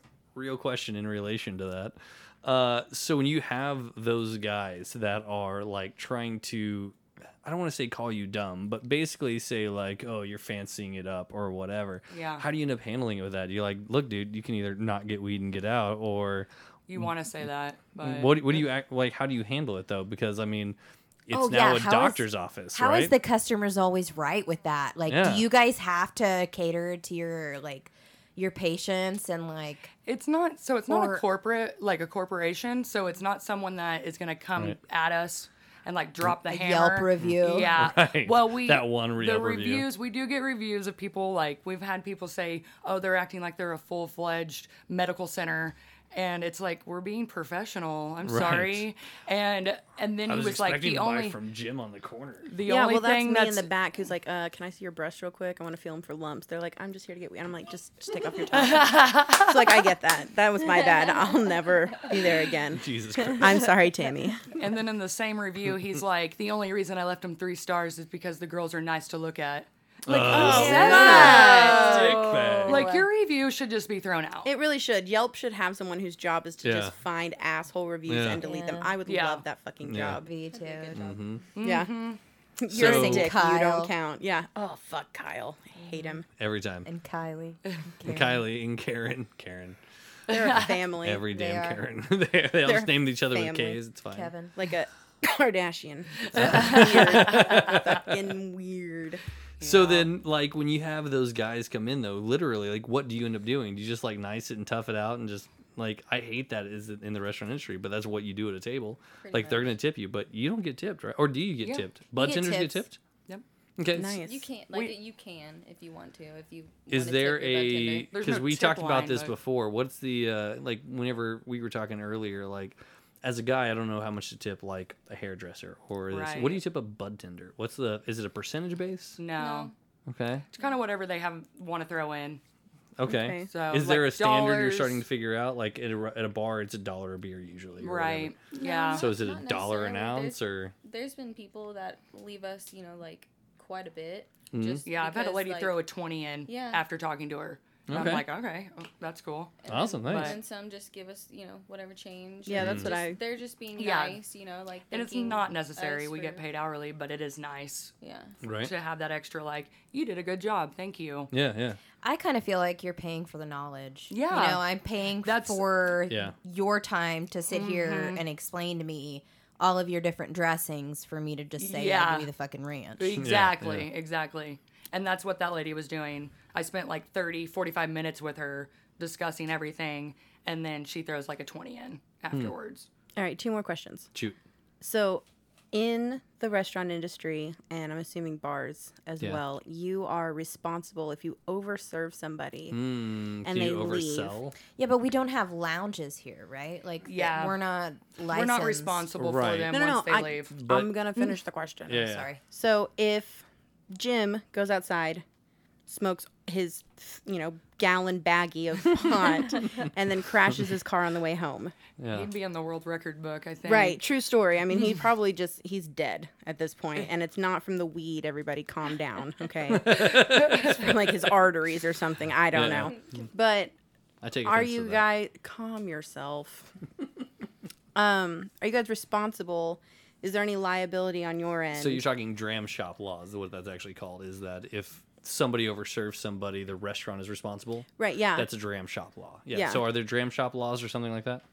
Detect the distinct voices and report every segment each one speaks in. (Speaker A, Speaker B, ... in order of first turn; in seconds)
Speaker A: 0.3-17.1, 18.0-20.8, 21.3-23.1, 25.1-25.5, 37.2-39.9, 48.2-48.8, 50.3-52.5, 62.7-63.7, 70.0-72.9, 76.6-77.0, 78.1-78.5, 79.8-80.2, 80.9-81.5, 82.7-83.4, 86.3-86.9, 88.0-89.8, 90.6-94.5, 96.3-98.1, 99.6-113.0, 113.8-114.2, 116.9-129.2, 130.1-130.5, 133.0-138.4, 138.9-140.7, 144.5-144.8, 147.9-148.3, 149.7-150.4, 152.6-152.9, 158.4-158.7, 161.3-161.8, 166.1-166.3, 173.2-173.9, 192.7-194.6, 199.1-199.7, 200.5-200.9, 201.9-202.3, 212.0-212.3, 219.7-220.7, 222.5-223.0, 224.2-225.1, 231.7-241.4
Speaker B: 12.1-12.4, 16.9-18.6, 30.1-51.4, 52.4-53.7, 58.5-59.9, 64.5-69.7, 70.2-74.5, 79.0-79.4, 81.5-82.2, 90.3-90.6, 97.1-97.5, 99.6-100.1, 118.1-119.3, 126.1-126.6, 129.2-129.7, 130.5-132.4, 133.5-135.0, 137.8-139.1, 144.8-150.4, 153.8-154.2, 154.9-157.9, 158.6-161.3, 164.1-164.6, 165.2-165.6, 167.5-168.2, 171.6-172.3, 173.0-182.9, 197.0-197.6, 198.3-200.6, 212.1-214.0
Speaker C: 21.3-29.9, 30.9-31.2, 36.4-37.9, 70.4-73.1, 78.4-78.9, 80.1-81.0, 82.7-83.9, 86.8-88.4, 91.3-91.8, 94.1-94.5, 112.2-112.8, 162.0-173.1, 194.7-199.1, 201.9-202.4
Speaker D: 52.6-64.6, 70.1-72.2, 74.4-80.3, 81.6-81.9, 82.6-86.3, 90.3-91.2, 92.6-93.8, 94.5-99.2, 113.9-114.5, 133.0-133.5, 152.4-153.2, 183.2-184.1, 184.8-192.8, 193.4-194.3, 199.7-205.2, 205.9-211.8, 213.7-223.7, 224.4-226.7, 227.9-232.1, 238.0-238.5, 239.5-239.9
Speaker E: 78.4-78.9, 80.5-81.3, 109.2-109.8, 114.2-118.1, 129.3-129.7, 138.5-145.8, 146.5-146.8, 149.6-156.4, 158.0-158.3